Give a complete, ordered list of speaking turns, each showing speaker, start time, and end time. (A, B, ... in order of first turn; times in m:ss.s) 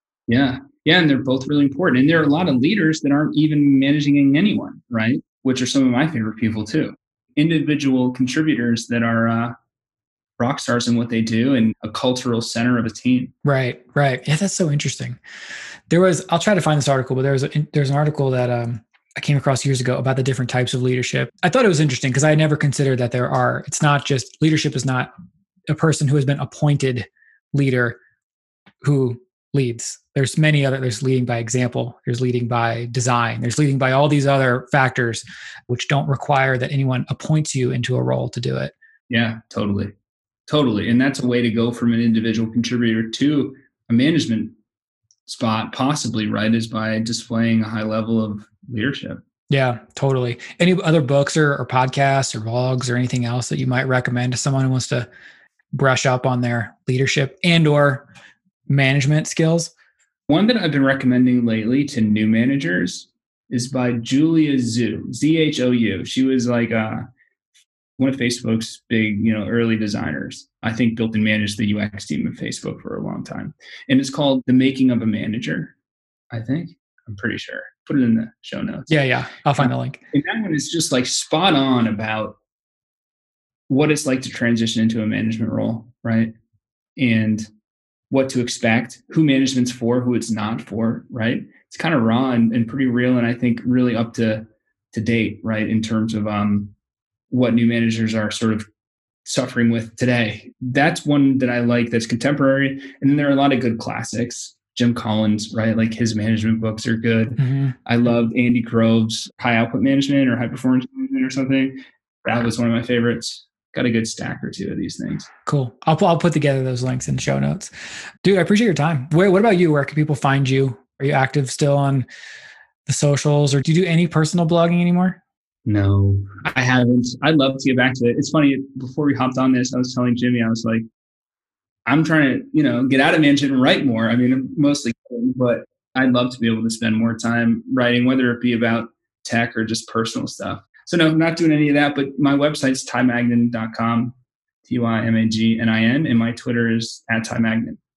0:00.3-0:09.5 A
0:10.4-0:13.3 A
0:13.4-0:15.2 B
0:15.9-0:25.1 B
0:25.7-0:28.0 B
0:28.8-0:38.7 B
0:39.1-0:39.9 A
0:40.5-0:44.5 A
0:45.2-0:49.2 A
0:49.5-0:55.1 B
0:55.7-0:58.1 B
0:58.7-0:59.7 B
1:00.3-1:07.0 A
1:08.0-1:15.7 A
1:16.3-1:18.9 A
1:18.9-1:20.0 B
1:19.6-1:22.4 A
1:23.7-1:26.3 A
1:27.0-1:27.5 A
1:28.1-1:36.7 A
1:37.3-1:38.6 A
1:39.2-1:55.3 A
1:47.4-1:47.7 B
1:55.4-1:57.7 B
1:58.2-2:02.0 B
2:02.9-2:05.2 B
2:05.6-2:10.8 A
2:11.9-2:27.8 A